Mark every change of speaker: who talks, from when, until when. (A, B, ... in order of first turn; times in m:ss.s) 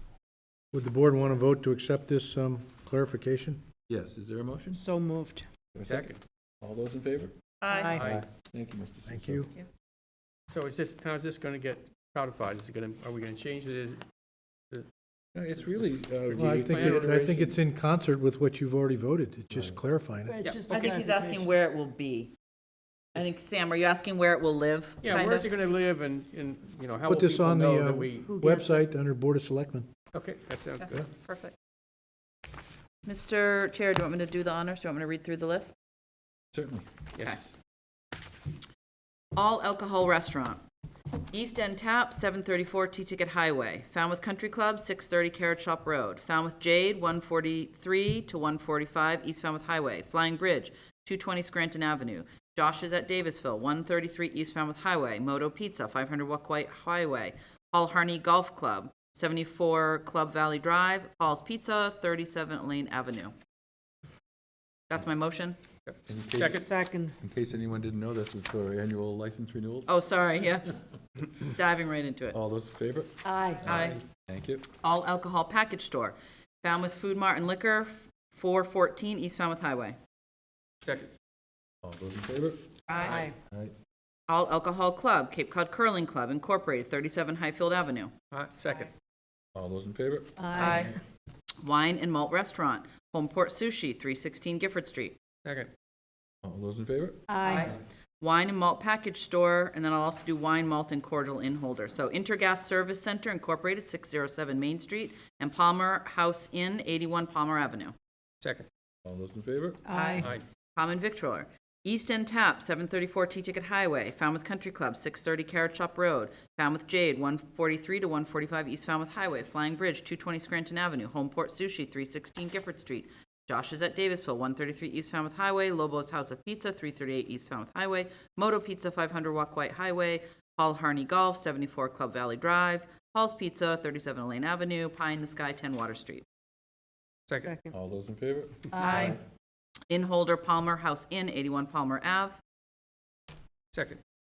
0:00.7-0:03.6 A
0:03.9-0:04.8 B
0:04.7-0:05.5 C
0:05.7-0:07.3 B
0:05.8-0:06.2 D
0:07.6-0:08.0 E
0:07.7-0:08.1 C
0:08.0-0:08.2 D
0:08.0-0:09.5 B
0:09.1-0:09.5 A
0:10.5-0:14.0 D
0:15.3-0:17.1 B
0:15.9-0:17.6 D
0:16.3-0:20.4 A
0:20.3-0:21.5 C
0:20.7-0:22.3 E
0:23.1-0:25.5 E
0:25.0-0:28.4 D
0:27.1-0:29.9 A
0:28.2-0:28.8 C
0:30.1-0:30.9 D
0:30.8-0:31.5 E
0:33.1-0:35.7 E
0:36.5-0:36.8 B
0:37.2-0:37.5 D
0:39.4-0:40.6 E
0:41.3-1:03.3 E
1:04.9-1:05.6 E
1:05.9-1:06.6 D
1:06.1-1:06.7 B
1:06.5-1:07.2 C
1:07.2-1:09.9 B
1:09.9-1:12.4 E
1:12.3-1:14.7 B
1:13.2-1:13.7 C
1:13.6-1:14.0 E
1:14.8-1:20.0 E
1:20.8-1:21.1 D
1:21.8-1:23.7 B
1:22.9-1:23.2 E
1:23.0-1:23.4 C
1:24.3-1:28.1 E
1:28.3-1:28.9 D
1:29.6-1:30.9 B
1:30.4-1:30.9 C
1:30.6-1:30.9 E
1:31.6-1:35.2 E
1:35.4-1:35.7 D
1:36.4-1:37.2 B
1:37.3-1:37.7 C
1:37.4-1:47.9 E
1:48.4-1:48.7 D
1:49.0-1:49.8 B
1:49.9-1:50.3 C
1:49.9-2:16.2 E
2:17.3-2:17.6 D
2:17.7-2:19.2 B
2:18.8-2:19.1 C
2:18.8-2:19.2 E
2:19.9-2:22.4 E
2:23.7-2:24.0 D